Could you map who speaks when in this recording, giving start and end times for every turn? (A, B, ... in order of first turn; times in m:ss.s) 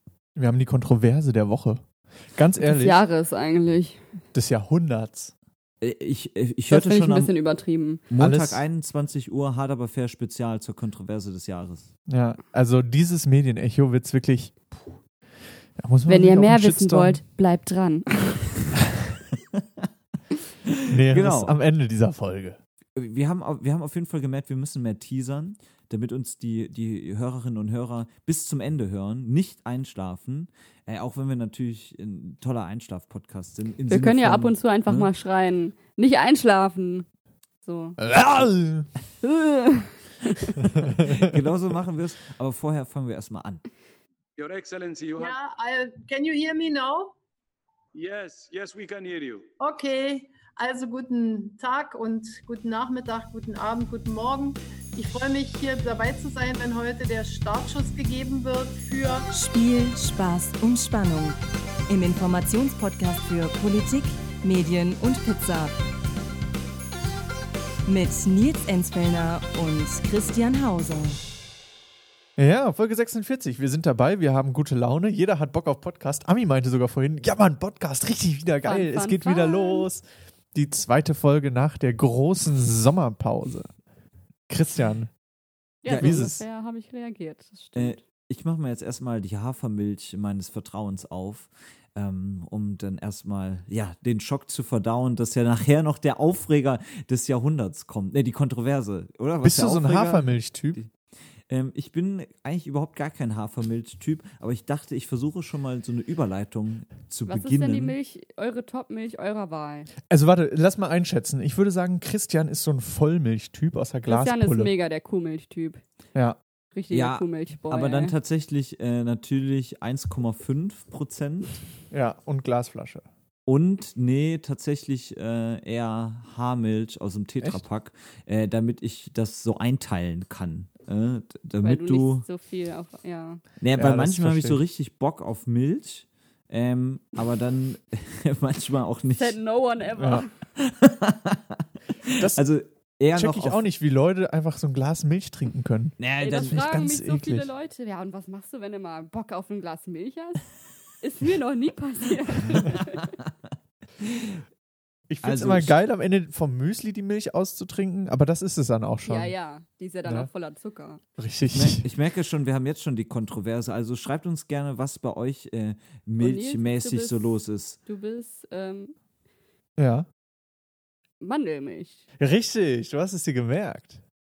0:00.4-0:03.0 A
0:02.6-0:04.0 B
0:04.3-0:05.3 A
0:05.8-0:07.3 C
0:06.7-0:08.0 B
0:08.1-0:11.9 C
0:08.2-0:08.6 A
0:12.1-0:14.7 A
0:15.8-0:17.2 A
0:16.1-0:18.6 B
0:18.8-0:19.1 A
0:19.5-0:19.9 C
0:20.7-0:21.5 C
0:20.9-0:22.6 A
0:23.0-0:35.1 C
0:33.9-0:37.1 B
0:37.6-0:38.0 B
0:38.0-0:38.9 A
0:39.2-0:40.6 B
0:40.8-0:43.7 C
0:44.4-0:45.4 D
0:45.2-0:47.2 E
0:47.9-0:49.5 D
0:49.6-0:59.2 E
0:59.3-1:01.4 F
1:01.9-1:05.7 F
1:07.8-1:11.2 F
1:12.4-1:23.7 A
1:18.6-1:19.9 B
1:24.5-1:25.1 A
1:25.8-1:28.0 B
1:25.8-1:26.3 C
1:26.0-1:26.4 A
1:27.8-1:40.9 C
1:39.4-1:40.8 A
1:41.5-1:48.0 C
1:47.3-1:49.9 B
1:50.1-1:54.7 A
1:54.1-1:55.8 B
1:56.7-1:58.1 B
1:56.9-2:01.6 C
2:01.9-2:03.0 A
2:03.4-2:12.2 C
2:11.6-2:13.4 B
2:13.6-2:19.4 C
2:13.7-2:14.6 A
2:19.2-2:20.3 B
2:20.0-2:20.2 A
2:20.6-2:23.6 C
2:22.2-2:22.4 A
2:23.2-2:27.5 A
2:26.0-2:26.6 C
2:26.2-2:33.2 B
2:32.7-2:33.3 C
2:34.0-2:34.4 C
2:35.1-2:39.3 A
2:35.2-2:35.8 C
2:39.1-2:41.0 B
2:41.2-2:41.8 A
2:41.5-2:47.8 C
2:46.2-2:47.3 B
2:47.8-2:48.9 B
2:49.8-2:50.1 A
2:51.2-2:52.1 B
2:52.2-2:54.0 A